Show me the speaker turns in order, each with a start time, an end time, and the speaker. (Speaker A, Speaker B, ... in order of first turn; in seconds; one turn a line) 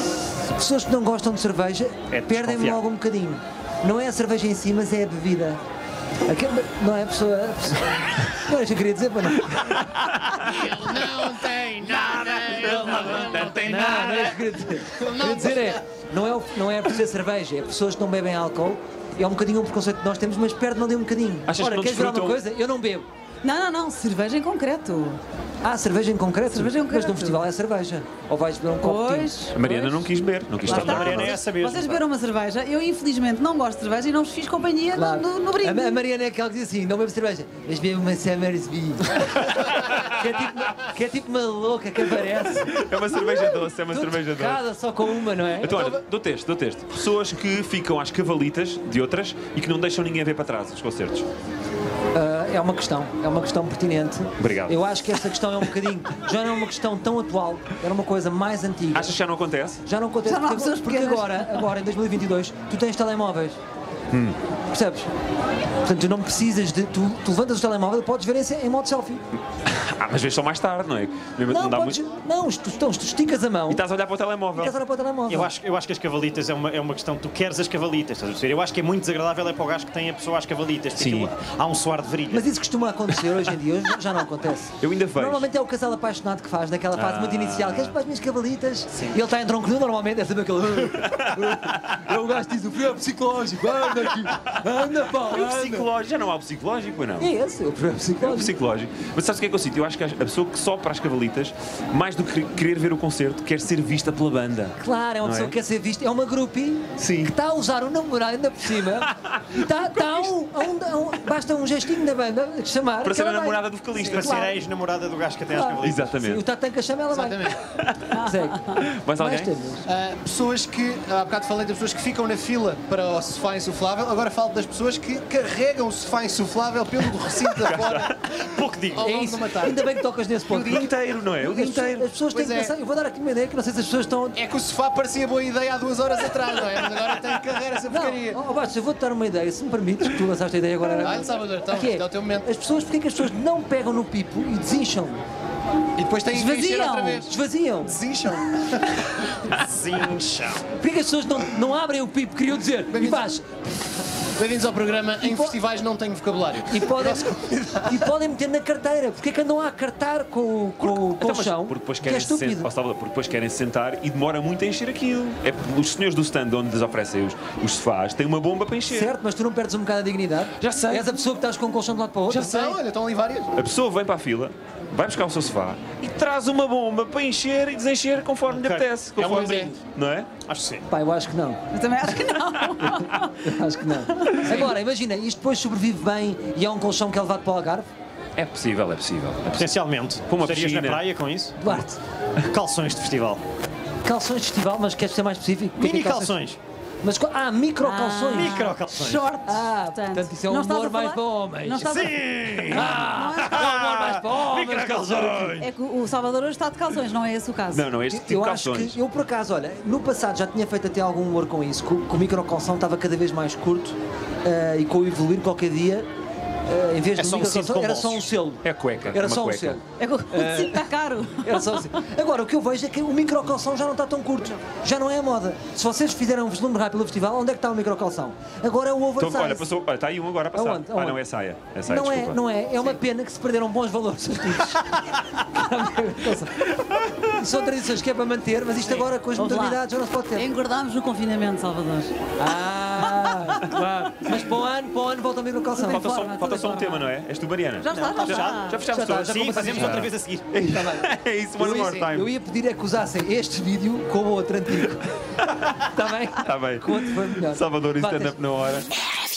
Speaker A: 0.6-5.6
Speaker B: 2.1-2.8
Speaker A: 6.3-7.8
Speaker A: 8.4-9.7
Speaker C: 10.3-15.8
Speaker D: 12.5-14.3
Speaker A: 13.7-23.1
Speaker D: 21.5-22.4
Speaker E: 23.4-25.2
Speaker A: 25.6-29.4
Speaker E: 26.5-27.4
Speaker E: 28.8-30.1
Speaker D: 29.5-31.4
Speaker B: 30.6-32.0
Speaker E: 30.7-36.0
Speaker A: 34.9-39.2
Speaker A: 40.1-42.8
Speaker D: 42.6-44.6
Speaker A: 43.9-45.8
Speaker D: 45.6-51.3
Speaker A: 52.1-59.1
Speaker D: 54.4-55.2
Speaker D: 58.9-59.8
Speaker A: 59.9-63.6
Speaker E: 60.2-61.8
Speaker D: 64.1-64.4
Speaker A: 64.7-65.1
Speaker A: 65.8-69.2
Speaker D: 69.6-72.0
Speaker A: 71.5-73.8
Speaker D: 73.7-74.8
Speaker A: 74.6-75.5
Speaker B: 75.3-82.5
Speaker D: 81.0-81.3
Speaker A: 82.4-84.7
Speaker D: 84.8-85.5
Speaker A: 85.2-95.9
Speaker D: 86.9-88.0
Speaker D: 91.0-91.7
Speaker D: 94.0-97.3
Speaker A: 97.2-98.5
Speaker D: 98.2-105.6
Speaker A: 104.8-114.6
Speaker D: 107.0-107.3
Speaker D: 108.8-110.3
Speaker D: 113.0-114.4
Speaker B: 114.0-116.3
Speaker A: 115.5-117.4
Speaker D: 115.8-116.5
Speaker C: 117.1-117.6
Speaker D: 117.7-118.2
Speaker E: 118.1-118.8
Speaker A: 118.2-118.7
Speaker D: 118.8-119.5
Speaker A: 119.2-119.9
Speaker C: 119.9-129.9
Speaker D: 127.6-128.3
Speaker B: 128.4-129.2
Speaker A: 129.0-130.9
Speaker D: 130.5-132.1
Speaker C: 130.5-130.9
Speaker A: 131.5-134.4
Speaker C: 132.2-132.7
Speaker C: 134.3-138.4
Speaker A: 137.9-145.2
Speaker C: 141.0-142.5
Speaker C: 146.0-147.3
Speaker E: 146.3-147.2
Speaker A: 147.3-148.0
Speaker C: 147.8-149.0
Speaker B: 149.5-150.7
Speaker A: 150.8-153.4
Speaker C: 152.9-153.4
Speaker C: 154.3-157.9
Speaker A: 155.2-155.6
Speaker A: 156.7-162.7
Speaker D: 160.8-169.2
Speaker A: 168.9-172.8
Speaker D: 170.6-171.3
Speaker C: 172.3-173.6
Speaker D: 173.6-180.3
Speaker B: 178.5-179.8
Speaker C: 179.2-179.7
Speaker B: 180.5-180.9
Speaker A: 180.9-181.6
Speaker E: 181.7-183.4
Speaker A: 183.4-187.9
Speaker E: 184.1-184.7
Speaker D: 188.4-189.7
Speaker B: 189.6-191.7
Speaker D: 190.3-191.1
Speaker A: 191.6-192.0
Speaker B: 192.4-193.4
Speaker A: 194.0-196.3
Speaker B: 195.8-196.6
Speaker A: 197.0-198.5
Speaker E: 197.8-203.7
Speaker B: 198.3-199.3
Speaker A: 199.4-201.9
Speaker B: 201.8-205.7
Speaker A: 202.8-205.6
Speaker E: 205.6-207.9
Speaker D: 207.7-209.0
Speaker A: 208.1-216.1
Speaker A: 216.7-219.8
Speaker B: 217.2-218.3
Speaker D: 218.6-219.8
Speaker E: 220.0-221.9
Speaker A: 220.3-220.8
Speaker A: 221.4-229.7
Speaker D: 229.2-232.4
Speaker A: 230.6-231.2
Speaker A: 231.9-236.7
Speaker A: 237.3-240.4
Speaker E: 239.3-239.8
Speaker E: 240.3-242.1
Speaker A: 242.4-247.0
Speaker E: 245.7-247.1
Speaker D: 245.8-252.3
Speaker E: 247.8-248.9
Speaker B: 247.9-250.6
Speaker A: 248.9-250.1
Speaker A: 250.7-255.0
Speaker D: 255.4-255.7
Speaker A: 255.8-258.4
Speaker D: 256.4-258.9